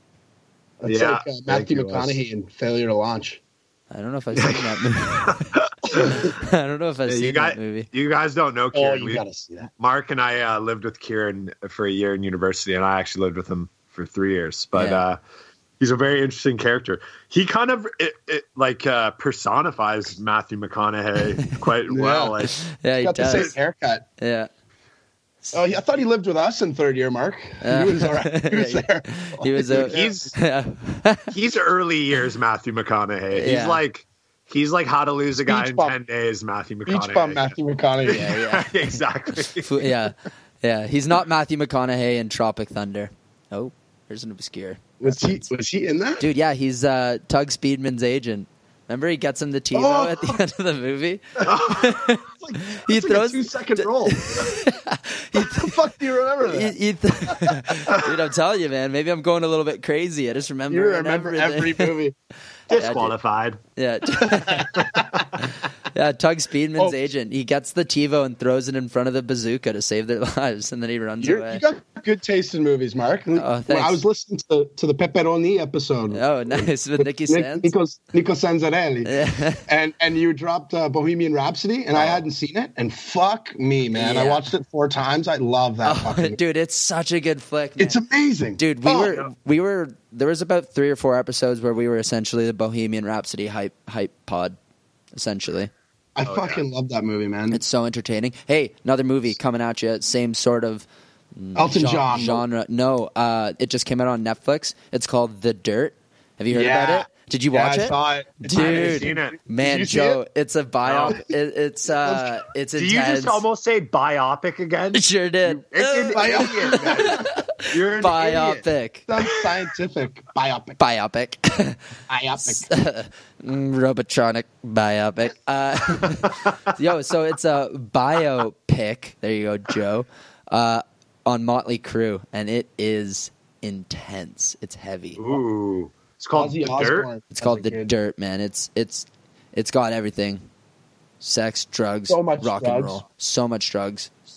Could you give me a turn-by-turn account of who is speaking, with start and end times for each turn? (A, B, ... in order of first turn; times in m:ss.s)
0:00.8-0:03.4 A
0:00.8-0:02.2 B
0:03.9-0:07.9 C
0:04.4-0:06.2 B
0:07.1-0:09.2 B
0:08.7-0:09.7 A
0:09.8-0:15.2 B
0:14.8-0:15.0 C
0:15.8-0:22.6 B
0:21.9-0:22.4 A
0:22.6-0:23.5 C
0:23.0-0:24.1 A
0:24.2-0:24.5 C
0:25.5-0:30.1 A
0:27.6-0:31.3 C
0:29.9-0:30.4 B
0:31.3-0:37.5 B
0:33.3-0:33.8 C
0:35.5-0:36.0 A
0:36.9-0:38.3 A
0:38.1-0:38.9 C
0:38.1-0:39.8 B
0:39.6-0:45.5 C
0:45.0-0:46.2 A
0:46.2-0:55.8 C
0:49.7-0:50.4 A
0:51.4-0:51.9 B
0:52.3-0:54.5 A
0:55.4-0:56.8 A
0:56.4-1:01.9 C
0:57.3-0:57.6 A
1:00.7-1:02.2 A
1:02.7-1:03.6 B
1:02.7-1:03.1 C
1:03.8-1:11.6 C
1:04.5-1:04.8 A
1:11.2-1:26.4 A
1:13.4-1:14.0 C
1:16.1-1:17.7 C
1:19.0-1:19.6 C
1:22.0-1:22.2 B
1:24.0-1:24.5 C
1:25.8-1:28.0 C
1:27.8-1:29.2 A
1:28.6-1:34.6 C
1:35.2-1:35.7 C
1:36.2-1:37.6 A
1:36.3-1:36.6 B
1:37.5-1:53.4 C
1:41.6-1:42.4 A
1:46.5-1:50.2 A
1:48.5-1:49.4 B
1:50.9-1:51.2 B
1:52.8-1:58.6 B
1:54.9-1:59.1 C
1:56.1-1:57.4 A
1:58.0-2:00.8 A
2:00.8-2:01.8 C
2:02.1-2:02.7 A
2:02.4-2:15.4 C
2:15.2-2:17.1 B
2:16.3-2:17.9 A
2:17.3-2:20.4 C
2:21.2-2:24.1 C
2:22.1-2:23.0 A